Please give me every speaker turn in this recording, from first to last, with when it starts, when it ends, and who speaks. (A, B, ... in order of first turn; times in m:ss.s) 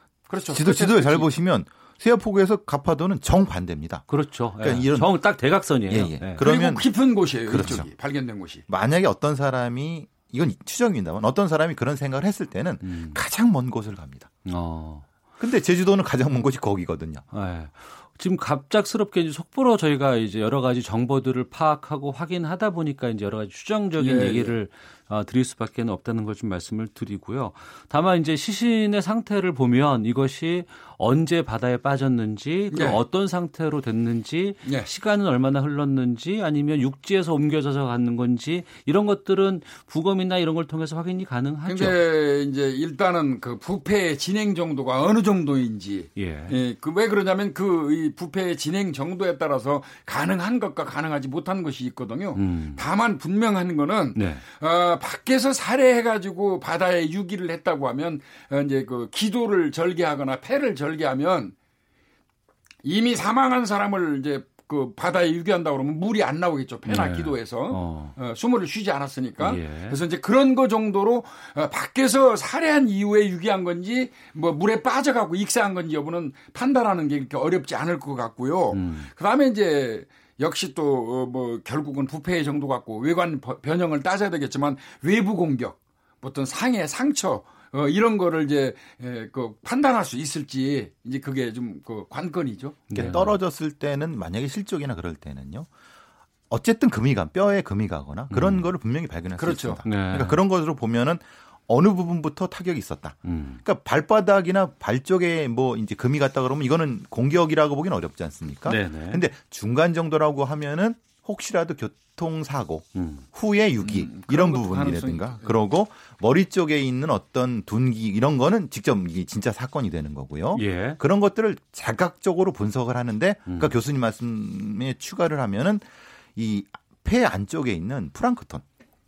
0:00.3-0:01.3 A
0:00.4-0:07.9 B
0:04.1-0:06.5 C
0:06.4-0:08.6 A
0:07.5-0:07.8 C
0:08.7-0:14.3 B
0:12.8-0:13.2 C
0:14.4-0:15.1 C
0:15.4-0:17.2 B
0:17.3-0:42.0 C
0:24.0-0:24.6 A
0:32.7-0:33.0 A
0:41.7-1:01.6 A
0:46.2-0:46.6 C
0:52.4-0:52.8 C
0:54.2-0:54.5 C
1:02.8-1:32.9 A
1:06.9-1:08.2 C
1:09.4-1:10.0 C
1:18.7-1:19.1 C
1:32.9-1:33.4 C
1:32.9-1:35.7 B
1:36.5-2:08.6 B
1:38.3-1:38.7 C
1:39.4-1:40.0 A
1:39.8-1:40.4 C
1:43.2-1:43.6 C
1:48.6-1:49.2 C
1:53.0-1:53.3 C
1:53.8-1:55.6 A
2:00.5-2:01.0 C
2:03.5-2:03.7 C